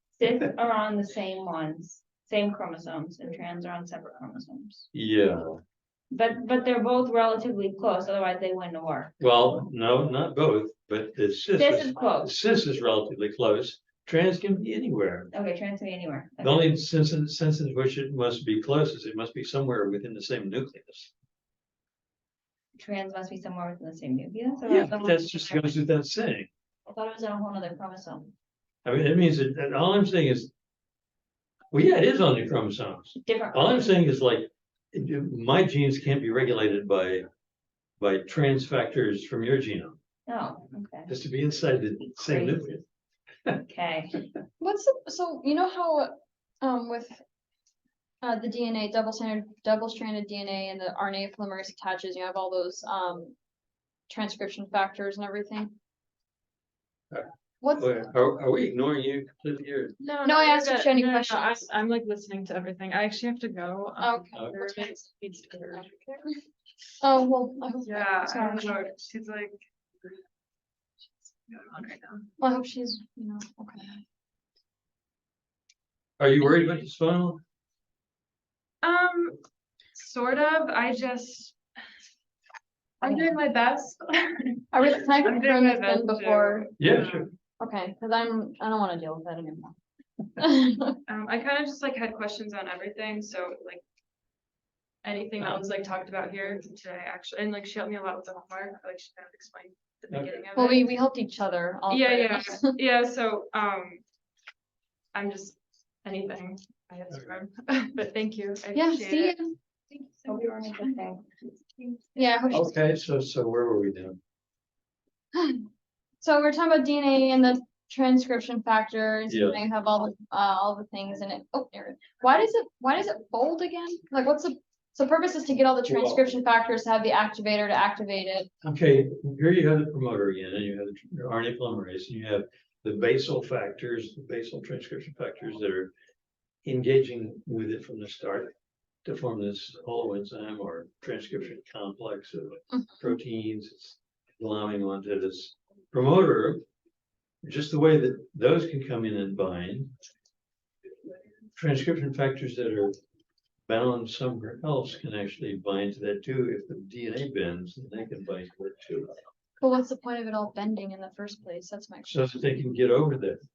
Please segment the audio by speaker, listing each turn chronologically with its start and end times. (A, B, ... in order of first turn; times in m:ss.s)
0:00.1-0:04.9 A
0:04.9-0:05.6 B
0:06.1-0:09.2 A
0:09.2-0:15.3 B
0:11.5-0:12.3 A
0:15.3-0:16.7 A
0:16.4-0:21.1 B
0:22.8-0:25.8 A
0:24.7-0:26.5 B
0:26.9-0:28.3 A
0:28.8-0:30.5 B
0:31.7-0:37.3 B
0:33.2-0:33.9 A
0:38.0-0:40.0 B
0:40.3-0:41.1 A
0:41.1-0:42.8 B
0:42.2-0:42.6 A
0:43.6-0:44.2 A
0:44.6-0:47.2 C
0:48.2-0:53.4 C
0:54.1-0:55.8 C
0:57.1-1:00.0 B
0:57.6-0:58.0 C
1:00.0-1:05.9 D
1:00.2-1:01.7 C
1:04.0-1:05.0 C
1:05.8-1:06.2 C
1:07.0-1:08.9 C
1:07.8-1:10.1 D
1:11.5-1:12.3 D
1:12.4-1:14.0 C
1:16.2-1:17.4 B
1:18.8-1:19.4 D
1:20.0-1:21.6 D
1:23.0-1:27.3 D
1:24.7-1:26.7 C
1:26.8-1:27.3 B
1:27.6-1:29.8 C
1:30.4-1:31.0 C
1:31.1-1:33.8 D
1:35.0-1:41.0 D
1:40.1-1:40.5 B
1:40.6-1:42.8 C
1:41.9-1:44.0 D
1:45.1-1:49.4 D
1:48.8-1:49.6 C
1:50.2-1:51.4 A
1:50.3-1:50.8 D
1:52.2-1:52.7 C
1:52.5-1:54.2 B
1:55.4-1:55.6 C
1:56.2-2:08.5 C
1:59.3-1:59.6 B
2:05.9-2:06.2 B
2:08.6-2:15.9 B
2:16.6-2:18.5 B
2:19.0-2:26.6 B
2:27.4-2:29.9 B
2:31.6-2:32.9 B
2:33.7-2:39.1 B
2:39.6-2:42.2 C
2:42.1-2:43.4 B